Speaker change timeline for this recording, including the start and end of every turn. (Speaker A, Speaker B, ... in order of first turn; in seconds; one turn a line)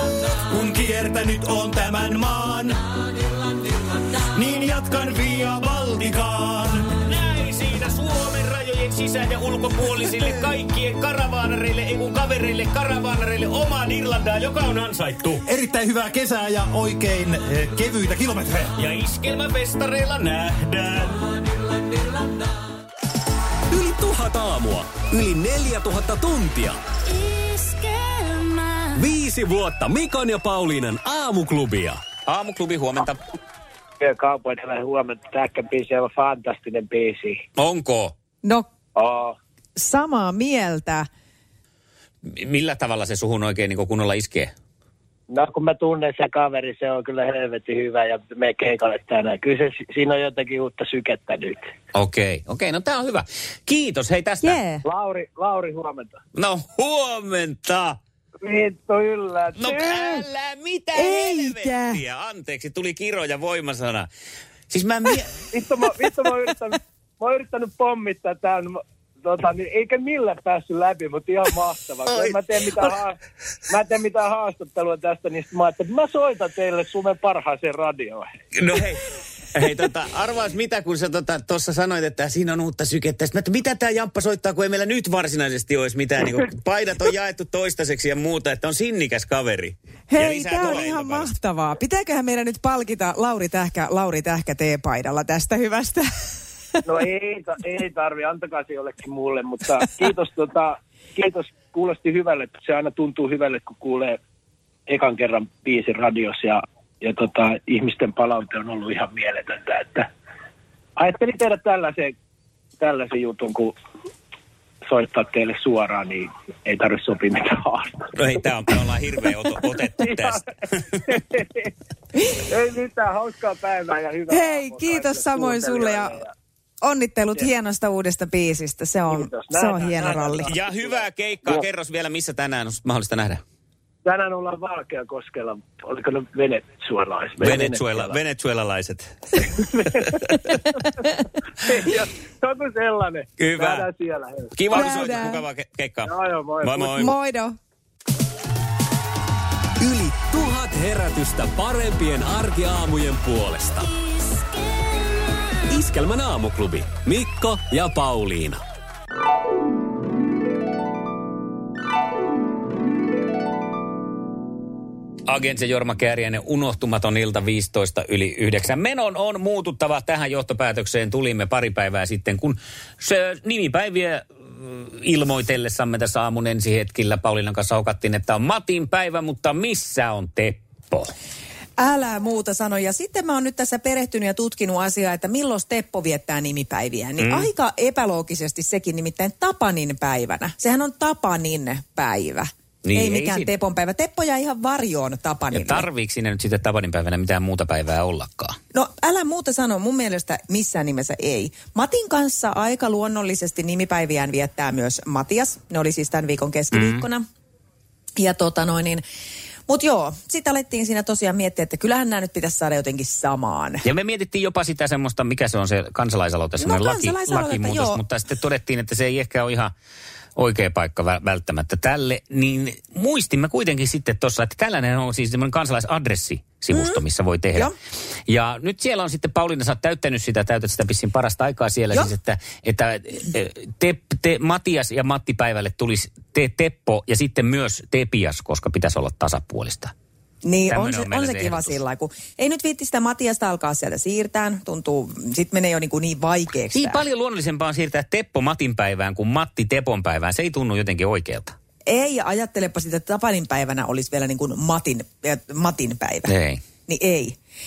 Speaker A: 0.5-2.8
Speaker A: 4.3-6.9
Speaker B: 6.9-15.4
Speaker C: 15.4-18.8
Speaker B: 18.8-21.1
Speaker D: 23.7-26.8
Speaker D: 28.9-32.0
Speaker B: 32.3-33.2
Speaker E: 34.0-37.4
Speaker B: 37.6-38.1
Speaker E: 39.0-39.4
Speaker F: 39.8-41.1
Speaker B: 42.2-44.5
Speaker E: 45.3-51.7
Speaker B: 51.9-54.6
Speaker F: 54.4-54.8
Speaker E: 54.9-56.2
Speaker B: 56.3-58.0
Speaker E: 58.4-60.3
Speaker B: 59.6-64.1
Speaker F: 60.9-62.0
Speaker B: 64.7-65.3
Speaker E: 65.5-73.2
Speaker B: 72.1-72.9
Speaker E: 73.7-78.3
Speaker B: 78.5-79.0
Speaker B: 79.5-91.4
Speaker F: 90.1-96.1
Speaker E: 96.9-104.2
Speaker E: 104.9-110.1
Speaker E: 111.0-112.1
Speaker E: 112.8-113.7
Speaker E: 114.9-118.1
Speaker B: 118.2-120.4
Speaker E: 119.7-120.5
Speaker E: 121.1-121.7
Speaker E: 122.5-126.3
Speaker F: 124.3-126.2
Speaker F: 126.8-130.5
Speaker E: 129.1-131.7
Speaker B: 130.5-133.4
Speaker E: 134.1-138.2
Speaker B: 137.4-139.1
Speaker E: 139.4-140.3
Speaker E: 141.7-145.0
Speaker B: 143.4-143.9
Speaker B: 144.6-147.2
Speaker F: 144.7-145.4
Speaker E: 146.0-147.1
Speaker F: 146.9-147.6
Speaker D: 149.8-153.9
Speaker D: 155.7-158.6
Speaker B: 165.3-181.1
Speaker F: 181.8-195.9
Speaker B: 187.2-187.5
Speaker B: 192.8-193.5
Speaker B: 195.5-198.6
Speaker F: 198.7-207.3
Speaker B: 206.7-207.1
Speaker F: 208.2-209.0
Speaker F: 209.7-213.8
Speaker B: 213.8-219.7
Speaker F: 216.6-218.0
Speaker B: 220.4-227.7
Speaker F: 226.7-227.0
Speaker B: 228.3-239.9
Speaker F: 240.4-247.1
Speaker B: 240.7-241.8
Speaker B: 246.7-251.6
Speaker F: 251.9-256.3
Speaker B: 256.3-256.6
Speaker F: 256.9-257.4